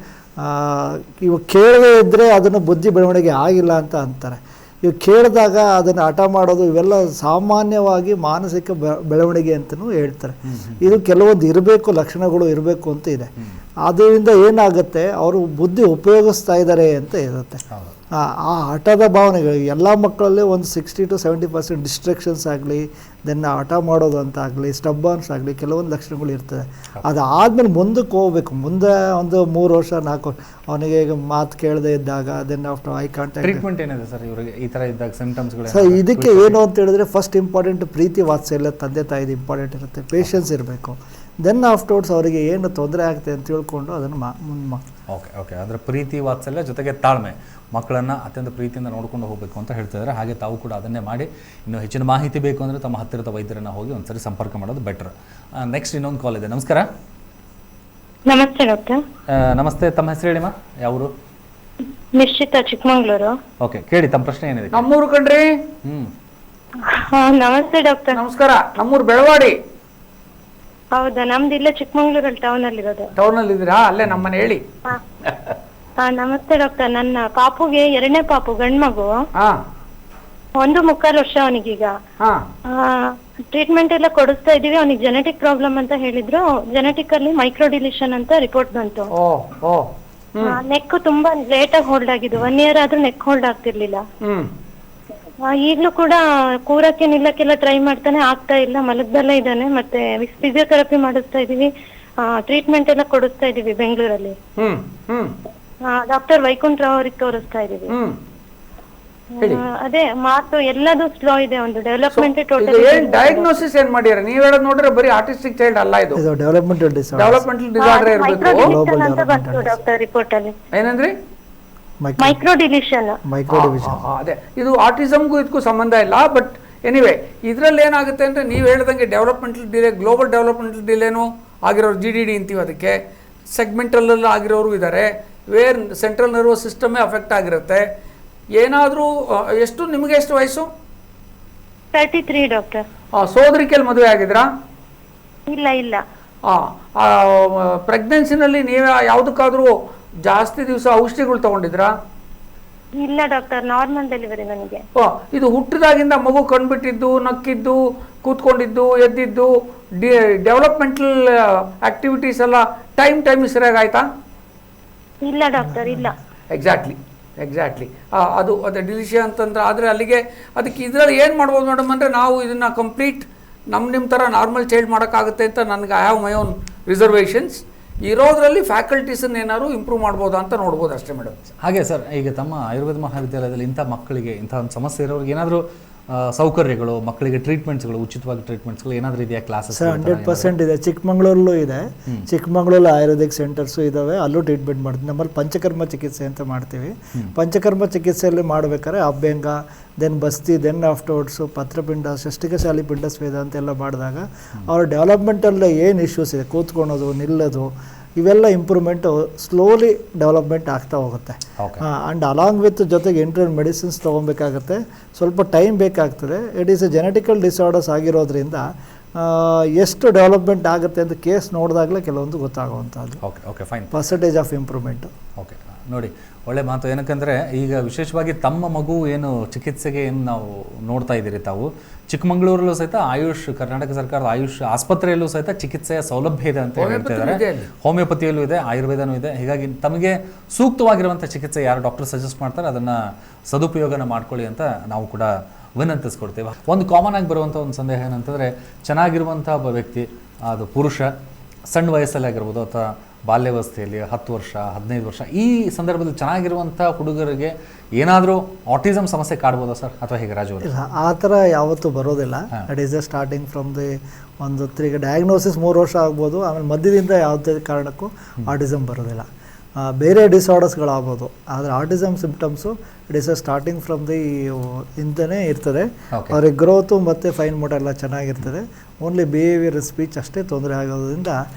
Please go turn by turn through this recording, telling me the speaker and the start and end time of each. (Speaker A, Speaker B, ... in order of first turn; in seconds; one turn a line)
Speaker A: 0.4-13.3
Speaker B: 10.5-10.9
Speaker A: 13.8-17.6
Speaker A: 18.1-33.6
Speaker B: 33.4-36.5
Speaker A: 35.7-44.8
Speaker B: 45.1-56.9
Speaker C: 58.3-59.0
Speaker B: 59.3-61.1
Speaker C: 62.1-63.4
Speaker B: 63.6-64.9
Speaker D: 64.7-65.5
Speaker B: 65.8-66.1
Speaker C: 66.8-68.2
Speaker D: 68.1-69.6
Speaker C: 70.9-73.1
Speaker D: 73.2-74.6
Speaker D: 75.2-75.6
Speaker C: 76.0-79.1
Speaker C: 80.5-81.9
Speaker C: 82.7-89.1
Speaker D: 89.2-90.6
Speaker C: 90.4-94.0
Speaker C: 95.4-104.4
Speaker D: 104.6-105.3
Speaker C: 105.8-108.0
Speaker D: 107.9-108.2
Speaker C: 109.4-113.6
Speaker D: 112.1-116.2
Speaker A: 116.1-117.4
Speaker D: 117.2-118.7
Speaker C: 117.8-120.5
Speaker A: 118.6-119.7
Speaker D: 120.7-121.1
Speaker A: 122.0-122.3
Speaker C: 122.2-123.2
Speaker A: 123.3-124.0
Speaker D: 123.5-133.0
Speaker D: 133.5-137.8
Speaker D: 138.6-140.7
Speaker C: 141.9-142.8
Speaker D: 143.1-144.5
Speaker C: 145.5-146.0
Speaker D: 146.5-149.7
Speaker D: 150.2-151.9
Speaker C: 152.9-154.8
Speaker D: 155.0-164.1
Speaker C: 165.2-166.1
Speaker A: 165.7-166.0
Speaker D: 166.5-181.5
Speaker B: 181.6-190.5
Speaker A: 189.7-218.6
Speaker B: 211.6-211.8
Speaker A: 219.2-223.2
Speaker B: 223.2-223.9
Speaker A: 223.9-225.1
Speaker B: 225.4-243.0
Speaker D: 236.8-237.7
Speaker B: 243.5-251.1
Speaker B: 251.7-260.7
Speaker A: 260.6-269.2
Speaker A: 269.8-281.4